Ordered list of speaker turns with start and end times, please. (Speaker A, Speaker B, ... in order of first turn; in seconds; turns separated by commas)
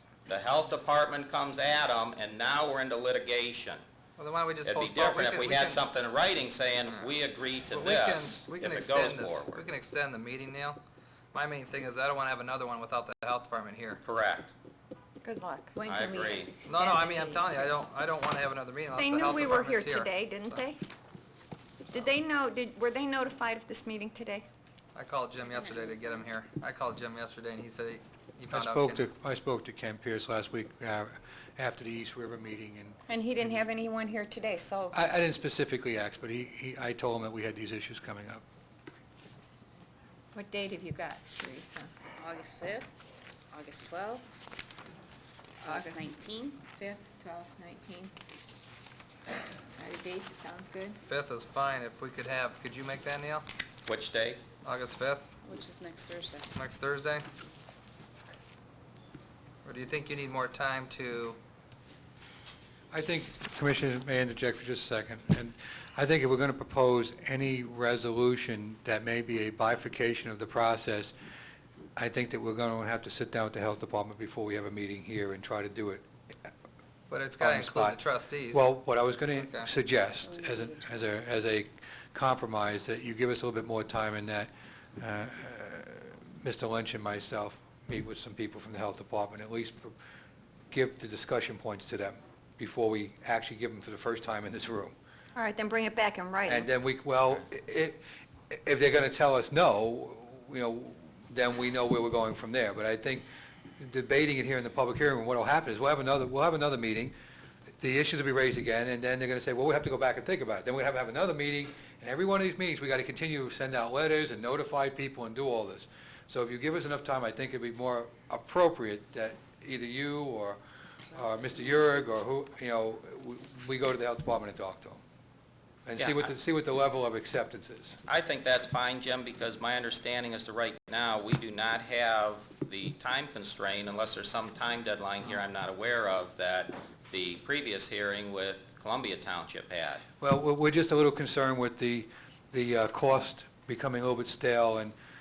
Speaker A: 0.3-3.8, Speaker B: 4.2-5.8, Speaker A: 4.6-9.6, Speaker B: 6.9-7.1, Speaker B: 7.7-10.8, Speaker B: 11.3-14.0, Speaker A: 14.0-14.5, Speaker C: 15.2-15.8, Speaker D: 15.8-17.5, Speaker A: 15.8-16.5, Speaker B: 16.7-20.6, Speaker C: 18.9-20.8, Speaker C: 21.9-24.5, Speaker B: 24.9-29.1, Speaker D: 25.5-26.2, Speaker E: 28.5-33.0, Speaker C: 33.1-35.0, Speaker E: 34.9-38.4, Speaker F: 40.3-41.9, Speaker D: 42.2-42.9, Speaker D: 43.5-44.2, Speaker F: 45.6-46.1, Speaker D: 45.6-46.6, Speaker F: 46.6-48.1, Speaker F: 49.8-51.0, Speaker B: 51.0-53.5, Speaker A: 53.9-54.4, Speaker B: 54.6-55.3, Speaker D: 55.5-56.5, Speaker B: 56.5-57.3, Speaker B: 59.6-61.4, Speaker E: 62.9-71.1, Speaker E: 72.0-76.1, Speaker B: 77.1-78.7, Speaker E: 77.4-90.0, Speaker B: 79.3-79.7, Speaker D: 80.2-81.0, Speaker E: 90.7-95.0, Speaker C: 95.3-96.7, Speaker E: 96.5-103.2, Speaker E: 103.8-107.1, Speaker E: 107.8-120.6, Speaker E: 121.1-125.0, Speaker E: 125.9-128.0, Speaker A: 126.0-126.3, Speaker A: 128.1-140.0, Speaker E: 140.2-144.9